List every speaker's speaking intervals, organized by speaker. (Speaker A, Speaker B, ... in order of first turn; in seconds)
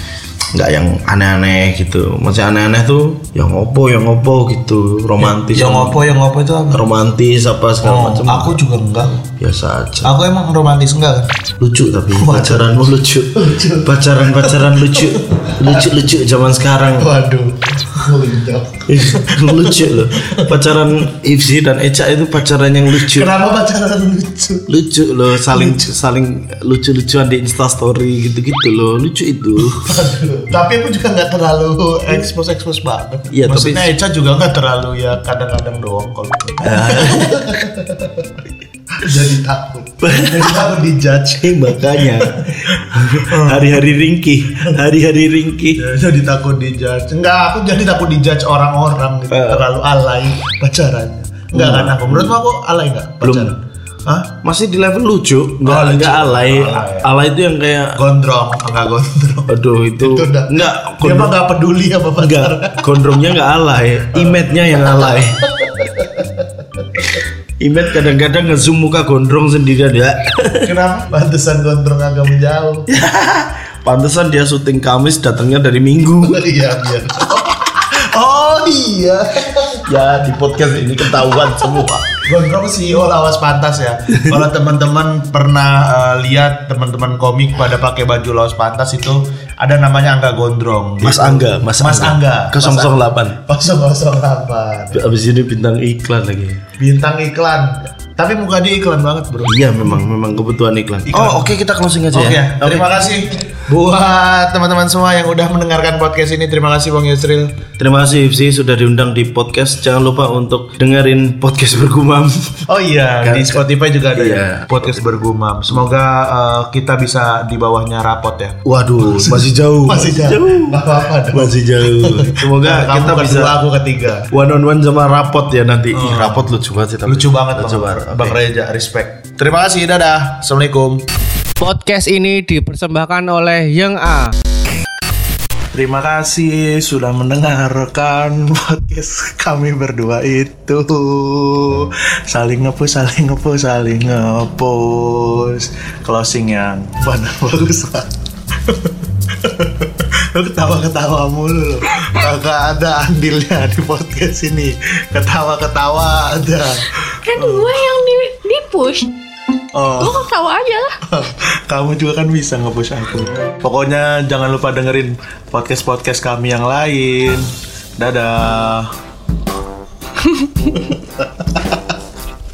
Speaker A: 0.5-6.1, 6.7-8.6, 9.4-10.1, 11.6-17.1, 18.9-23.3, 24.7-30.0, 33.3-33.9, 36.6-37.6, 40.0-40.9, 41.4-45.8, 49.3-49.7, 51.5-52.4, 53.2-53.5, 54.4-58.0, 59.5-61.4, 62.2-65.4, 67.6-70.7, 72.9-76.5, 79.9-82.1, 84.2-84.4, 91.0-93.4, 94.9-96.6, 99.5-103.2, 107.8-112.6, 113.2-115.0, 118.6-123.6, 124.3-128.4
Speaker B: 5.2-6.8, 7.8-9.2, 10.0-11.3, 12.1-15.9, 17.0-20.9, 22.9-24.7, 25.5-25.8, 29.6-38.4, 38.9-42.6, 43.2-43.9, 45.7-54.3, 55.6-57.1, 58.0-63.2, 64.1-64.4, 65.1-67.1, 70.6-72.9, 76.2-79.9, 82.1-95.0, 96.8-99.8, 101.1-101.5, 102.1-107.5, 112.7-124.3, 125.9-126.5, 127.1-131.0, 135.7-148.1, 148.7-157.7, 159.7-160.2, 161.1-168.9, 170.5-171.9
Speaker C: 131.6-134.3
Speaker D: 157.2-159.1, 160.0-160.9